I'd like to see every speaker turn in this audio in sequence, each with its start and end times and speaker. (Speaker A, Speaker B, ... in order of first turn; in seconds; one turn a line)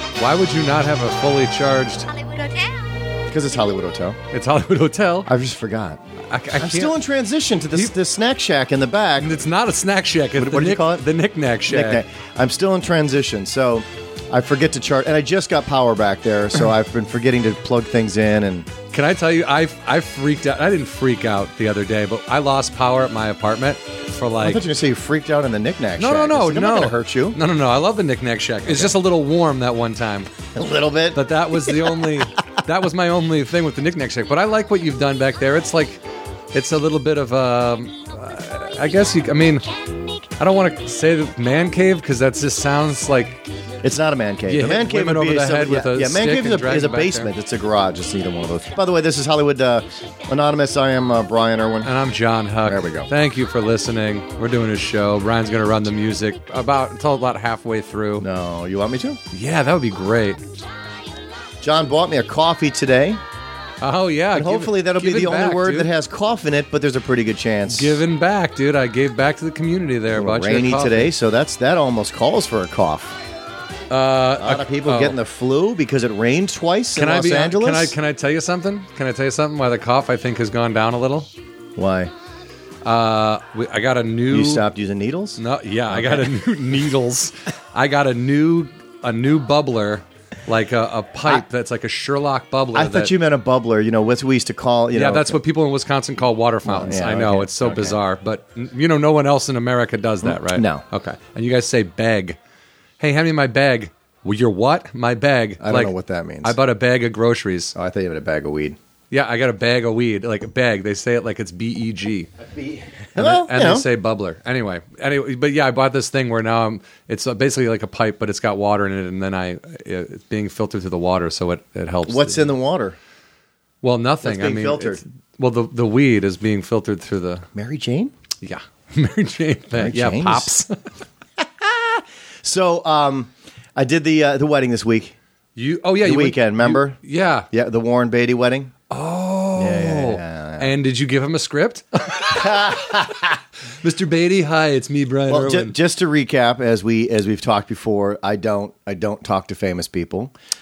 Speaker A: 0.2-2.3
Speaker B: 3.3-4.2
Speaker A: 4.3-5.3
Speaker B: 5.2-6.0
Speaker A: 6.3-6.9
Speaker B: 6.6-9.3
Speaker A: 9.2-12.0
Speaker B: 10.3-11.0
Speaker B: 11.7-18.7
Speaker A: 18.9-24.6
Speaker B: 24.4-27.4
Speaker A: 26.0-30.3
Speaker B: 28.6-28.9
Speaker B: 30.5-32.1
Speaker A: 31.1-36.0
Speaker A: 36.5-39.6
Speaker A: 40.4-43.4
Speaker B: 43.8-51.9
Speaker A: 44.5-47.3
Speaker A: 51.8-58.2
Speaker B: 52.6-53.1
Speaker B: 58.2-59.2
Speaker A: 59.3-60.6
Speaker B: 61.6-63.2
Speaker A: 63.8-65.9
Speaker B: 64.3-68.0
Speaker A: 67.7-71.1
Speaker B: 70.1-73.2
Speaker A: 73.9-75.2
Speaker B: 74.4-78.0
Speaker A: 76.9-81.3
Speaker B: 81.8-82.1
Speaker A: 82.8-84.6
Speaker B: 84.3-86.2
Speaker A: 85.4-93.1
Speaker B: 92.7-95.4
Speaker A: 94.9-102.4
Speaker B: 96.6-98.0
Speaker B: 100.2-100.8
Speaker A: 103.0-105.9
Speaker B: 105.6-106.5
Speaker A: 106.4-107.7
Speaker B: 107.7-108.8
Speaker A: 109.1-112.3
Speaker B: 112.4-113.8
Speaker A: 113.2-122.5
Speaker B: 122.0-123.0
Speaker A: 123.8-127.5
Speaker B: 124.2-125.0
Speaker B: 127.5-128.1
Speaker A: 128.4-130.8
Speaker B: 129.8-130.5
Speaker B: 131.4-135.1
Speaker A: 135.6-137.5
Speaker B: 136.0-137.0
Speaker B: 137.5-138.7
Speaker A: 138.9-143.1
Speaker B: 139.6-140.7
Speaker B: 142.3-143.3
Speaker A: 143.8-145.7
Speaker B: 145.3-150.3